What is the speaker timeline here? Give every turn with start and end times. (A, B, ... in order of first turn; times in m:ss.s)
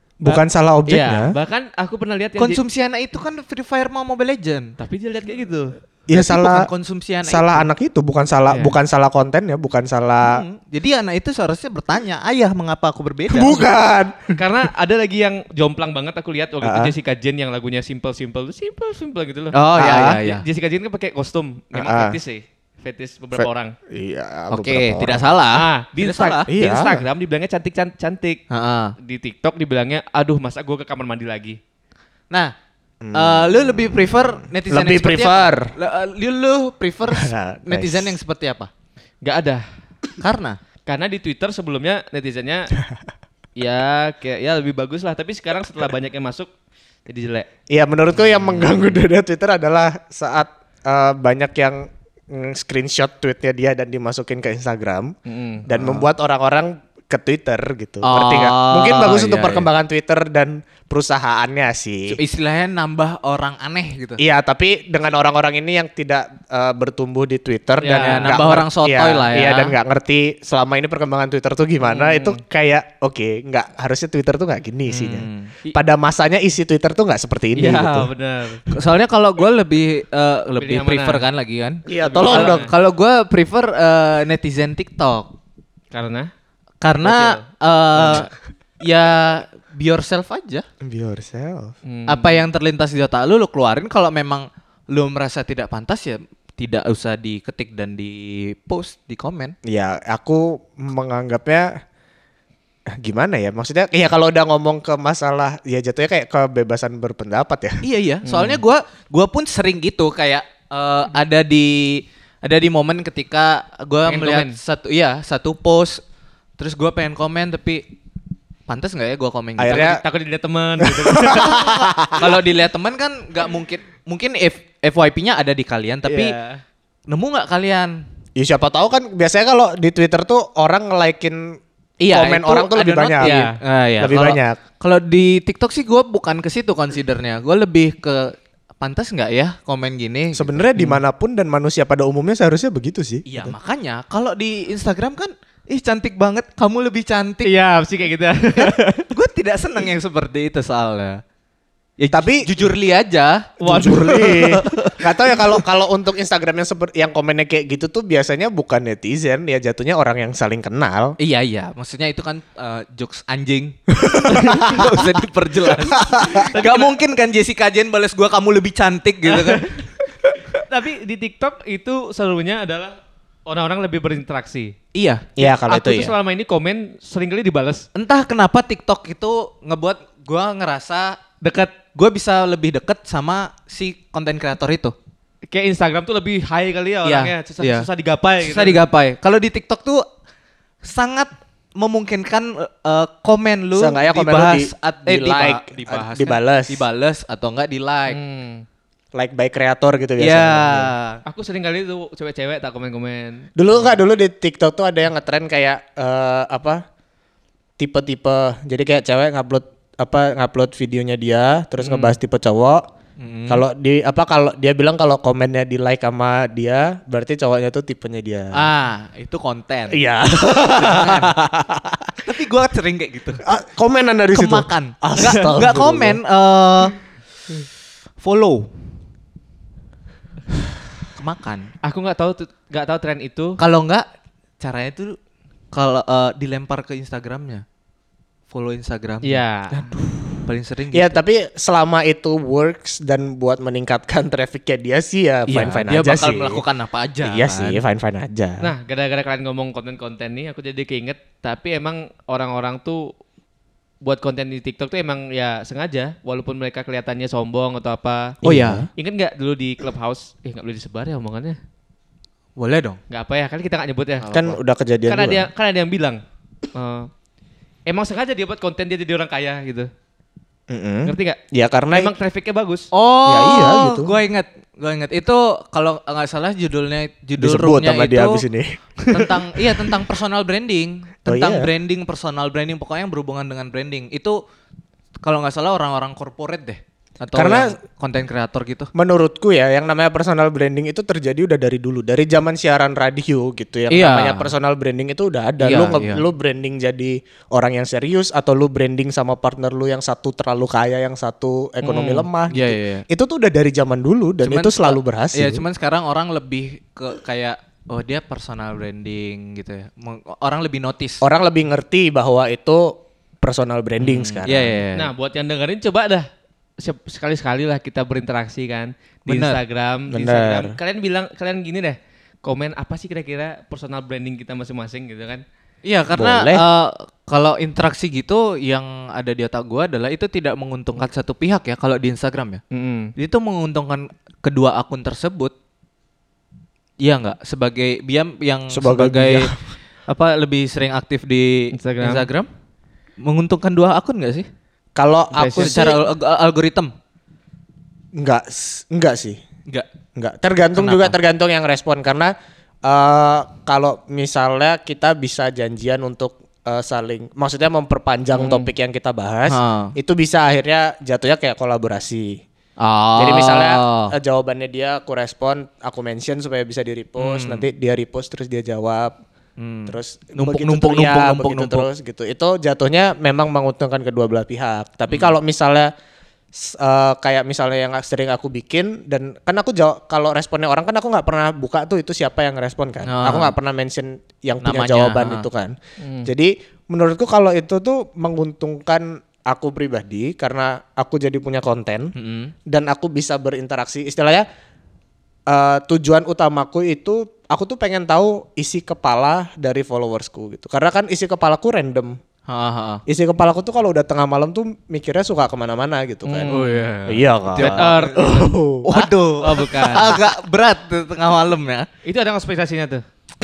0:00.2-0:01.3 A
0:00.2-0:02.6 B
0:02.4-0:04.7 C
0:04.8-0:05.7 B
0:06.1-0:06.7 A
0:06.1-0:07.7 C
0:07.2-0:10.4 A
0:08.5-0:08.8 B
0:10.2-0:13.7 C
0:13.3-0:14.4 A
0:14.4-0:23.7 B
0:16.6-0:16.9 A
0:19.5-0:20.4 C
0:19.8-0:20.2 A
0:21.7-0:22.2 A
0:23.4-0:25.3 A
0:24.5-0:26.5 C
0:25.5-0:28.4 B
0:26.5-0:27.0 A
0:28.5-0:29.0 C
0:29.0-0:31.6 B
0:33.0-0:35.7 A
0:33.1-0:38.7 C
0:37.1-0:38.2 A
0:39.2-0:39.6 B
0:40.2-0:40.6 C
0:40.9-0:42.7 B
0:43.6-0:46.5 B
0:47.1-0:47.5 B
0:47.7-0:55.1 A
0:55.3-0:55.7 B
0:55.7-1:02.2 A
0:58.0-0:59.7 C
1:02.1-1:04.2 C
1:04.2-1:18.1 A
1:07.8-1:08.4 B
1:08.0-1:09.8 C
1:11.8-1:12.4 B
1:14.9-1:15.5 C
1:17.6-1:18.6 B
1:18.7-1:25.3 C
1:20.6-1:21.2 B
1:21.9-1:22.7 A
1:22.0-1:22.7 B
1:25.9-1:26.3 B
1:26.8-1:28.3 C
1:27.0-1:27.4 B
1:28.0-1:28.3 B
1:28.8-1:30.6 C
1:30.8-1:31.8 A
1:31.9-1:32.5 B
1:32.1-1:39.6 C
1:39.6-1:41.8 A
1:43.0-1:47.8 A
1:47.8-1:56.0 C
1:48.2-1:48.6 B
1:54.1-1:54.6 B
1:56.6-1:57.9 C
1:58.7-2:00.0 C
1:59.6-2:00.0 A
1:59.8-2:01.8 B
2:00.8-2:02.4 A
2:01.2-2:06.4 C
2:06.1-2:06.6 B
2:07.1-2:08.0 C
2:08.4-2:11.6 A
2:12.0-2:21.0 C
2:12.1-2:13.4 A
2:13.2-2:13.6 B
2:14.0-2:14.6 A
2:20.4-2:23.6 A
2:23.3-2:27.5 C
2:27.4-2:29.1 B
2:28.6-2:31.2 C
2:32.0-2:35.4 C
2:32.1-2:32.5 A
2:33.6-2:34.7 B
2:33.6-2:41.2 A
2:41.2-2:49.7 C
2:44.0-2:45.1 A
2:46.0-2:46.5 A
2:46.3-2:47.0 B
2:49.3-2:54.7 B
2:54.9-2:55.3 C
2:55.4-2:56.1 A
2:55.4-2:57.9 B
2:58.0-3:05.0 C
3:01.4-3:01.7 B
3:05.5-3:08.8 B
3:07.0-3:07.9 C
3:08.4-3:10.0 C
3:10.8-3:18.2 C
3:13.8-3:16.8 A
3:18.1-3:18.6 B
3:19.1-3:20.9 A
3:20.2-3:21.2 C
3:21.3-3:23.5 B
3:23.6-3:26.8 A
3:27.8-3:32.8 A
3:31.8-3:32.2 B
3:33.2-3:33.6 C
3:33.5-3:38.6 A
3:38.5-3:40.0 C
3:39.9-3:42.3 A
3:40.8-3:41.3 C
3:42.2-3:43.4 C
3:43.4-3:46.2 A
3:44.3-3:47.0 C
3:48.2-3:48.7 C
3:51.2-3:51.7 C
3:51.8-3:53.6 B
3:53.6-3:54.1 C
3:54.6-3:55.2 C
3:55.7-3:57.6 C
3:58.5-3:59.4 C
3:59.2-3:59.8 B
3:59.7-4:00.4 A
4:00.4-4:01.2 C
4:00.9-4:06.6 A
4:05.5-4:07.8 C
4:07.2-4:08.7 A
4:08.6-4:13.1 B
4:14.0-4:18.4 B
4:18.4-4:18.9 A
4:18.4-4:18.9 C
4:19.0-4:21.6 B
4:22.6-4:23.0 C
4:23.1-4:24.4 B
4:24.2-4:24.6 C
4:24.3-4:25.5 A
4:25.1-4:26.2 B
4:26.8-4:27.1 B
4:27.9-4:29.9 B
4:30.7-4:32.1 A
4:31.0-4:31.4 B
4:31.9-4:32.9 B
4:32.9-4:38.4 C
4:33.3-4:34.1 A
4:37.4-4:40.0 A
4:39.1-4:44.4 C
4:41.3-4:41.7 A
4:45.2-4:48.9 C
4:47.4-4:47.8 A
4:48.9-5:05.6 A
4:53.9-4:54.5 C
4:55.6-4:56.2 C
5:01.8-5:03.0 C
5:04.4-5:11.2 C
5:11.2-5:14.8 A
5:14.0-5:15.1 C
5:15.0-5:16.3 B
5:16.8-5:25.4 B
5:19.3-5:19.6 C
5:20.1-5:20.8 A
5:25.8-5:32.6 C
5:26.2-5:26.6 A
5:32.7-5:33.1 B
5:33.2-5:35.5 C
5:37.0-5:42.5 C
5:38.7-5:39.6 A
5:41.7-5:42.3 B
5:43.2-5:44.5 C
5:45.0-5:46.0 A
5:45.3-5:45.8 B
5:45.5-5:46.9 C
5:48.2-5:49.4 A
5:50.2-5:52.3 A
5:50.8-5:51.2 C
5:52.8-6:02.4 A
5:58.3-5:58.7 B
5:59.5-5:59.9 C
6:02.8-6:04.1 C
6:03.2-6:09.2 A
6:07.2-6:07.7 C
6:09.6-6:11.9 C
6:09.9-6:15.9 A
6:15.1-6:15.4 C
6:16.5-6:32.1 A
6:23.0-6:23.5 C
6:24.6-6:25.5 C
6:26.0-6:26.3 B
6:32.2-6:32.5 C
6:32.7-6:34.4 A
6:35.5-6:42.2 A
6:42.5-6:43.0 C
6:43.1-6:46.5 A
6:46.3-6:46.9 B
6:46.5-6:48.1 C
6:47.1-6:49.0 A
6:47.6-6:50.2 B
6:48.8-6:51.9 C
6:52.0-6:53.0 B